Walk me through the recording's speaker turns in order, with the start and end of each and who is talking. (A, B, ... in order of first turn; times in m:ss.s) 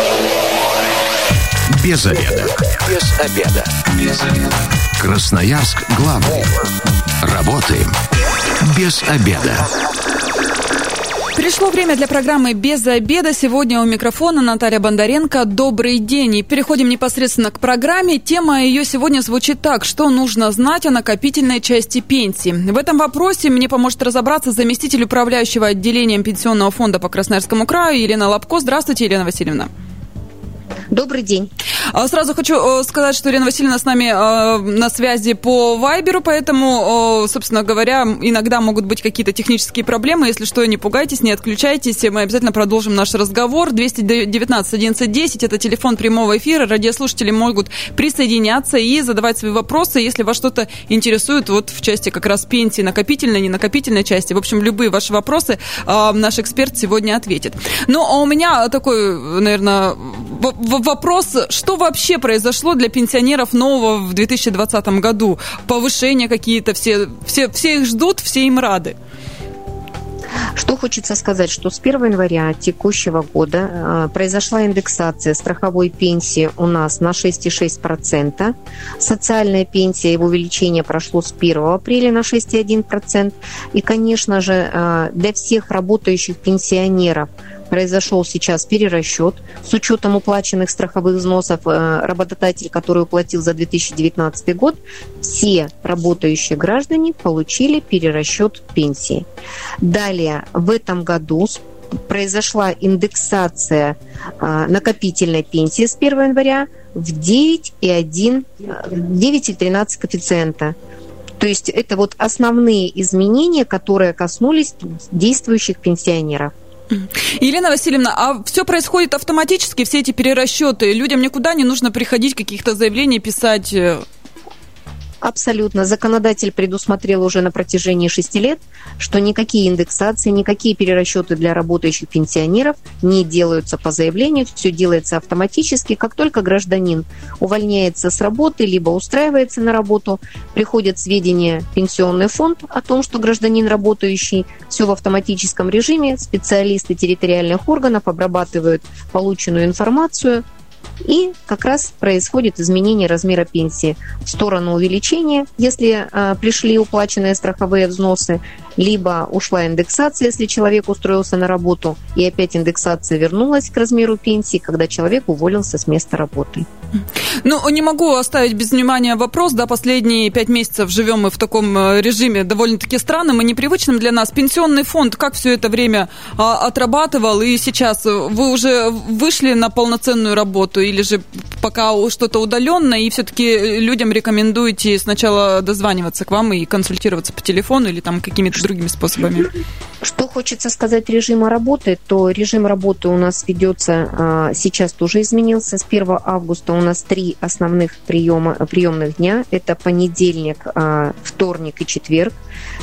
0:01.7-0:06.6 A
0:07.2-0:07.9 A
0:08.6-0:09.7 A
0:11.4-0:29.7 B
0:30.9-0:31.5 C
0:31.9-1:09.0 B
1:10.6-1:39.3 C
1:39.8-1:50.8 C
1:51.4-1:56.5 C
1:56.9-2:04.1 B
2:05.2-2:30.4 C
2:31.0-2:46.7 C
2:47.4-3:09.5 B
3:10.0-3:22.4 C